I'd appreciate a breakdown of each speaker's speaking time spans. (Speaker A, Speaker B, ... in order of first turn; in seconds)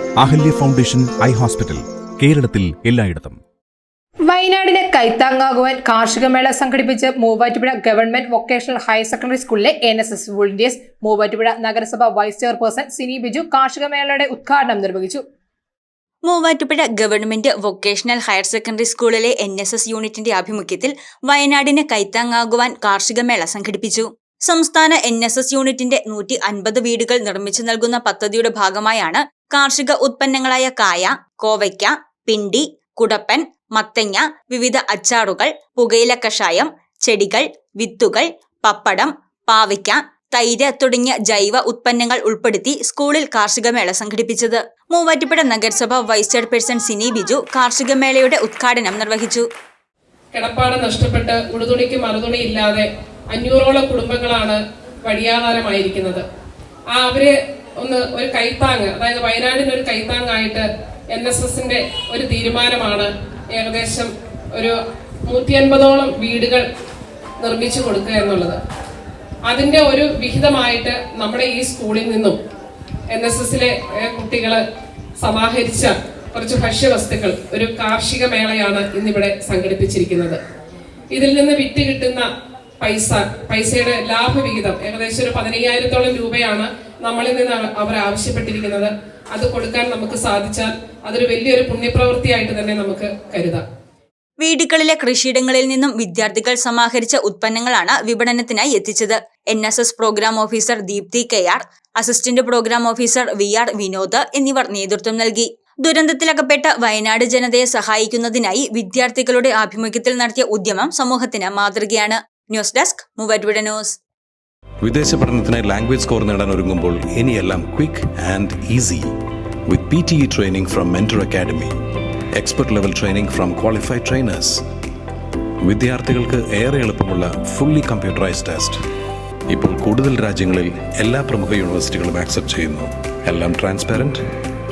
Speaker A: 0.2-3.4
Speaker B: 4.3-15.2
Speaker C: 16.3-49.4, 94.4-114.0
Speaker D: 50.3-56.2, 56.9-66.7, 67.4-68.6, 69.5-72.4, 73.1-74.6, 75.2-80.4, 81.2-82.2, 82.8-93.6
Speaker E: 114.8-119.1, 119.7-121.7, 122.4-124.6, 125.6-128.8, 129.5-134.2